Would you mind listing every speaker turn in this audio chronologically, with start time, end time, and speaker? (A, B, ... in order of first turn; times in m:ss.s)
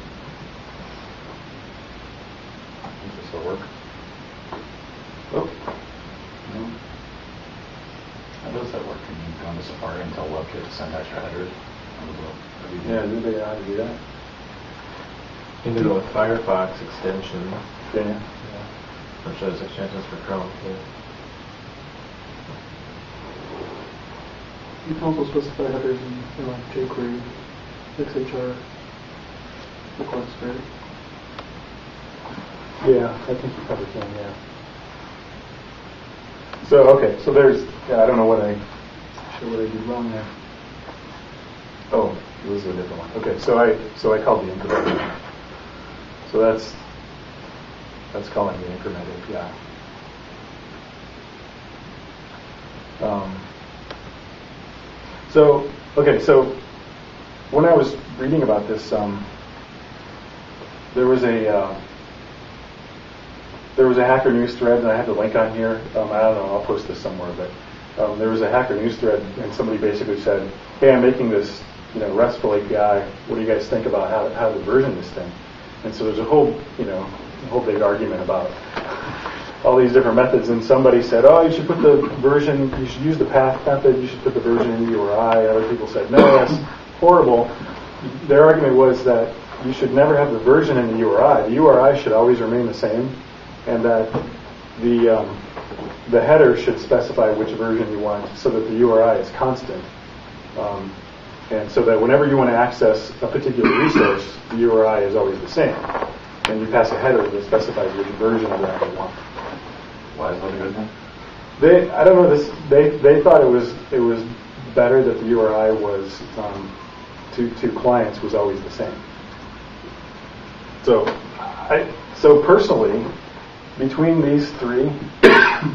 0:03.0-0:03.7 A
0:05.3-0:05.6 A
0:06.5-0:06.7 A
0:08.4-0:13.0 B
0:12.8-0:14.0 A
0:15.6-0:17.6 C
0:17.9-0:18.2 A
0:19.2-0:20.8 C
0:24.8-0:28.6 D
0:30.0-0:30.6 D
0:32.8-0:34.4 A
0:36.6-0:38.6 A
0:39.3-0:40.3 A
0:41.9-0:45.1 A
0:46.3-0:46.8 A
0:48.1-0:49.5 A
0:53.0-0:53.4 A
0:55.3-0:56.6 A
0:57.5-0:59.3 A
1:00.9-1:01.8 A
1:03.8-1:19.1 A
1:19.6-1:34.2 A
1:34.8-1:35.4 A
1:36.0-1:39.9 A
1:40.5-1:40.9 A
1:41.5-1:45.9 A
1:46.5-1:49.2 A
1:50.1-1:50.9 B
1:51.6-1:56.7 A
1:57.3-1:59.0 A
2:00.8-2:03.1 A
2:03.8-2:05.5 A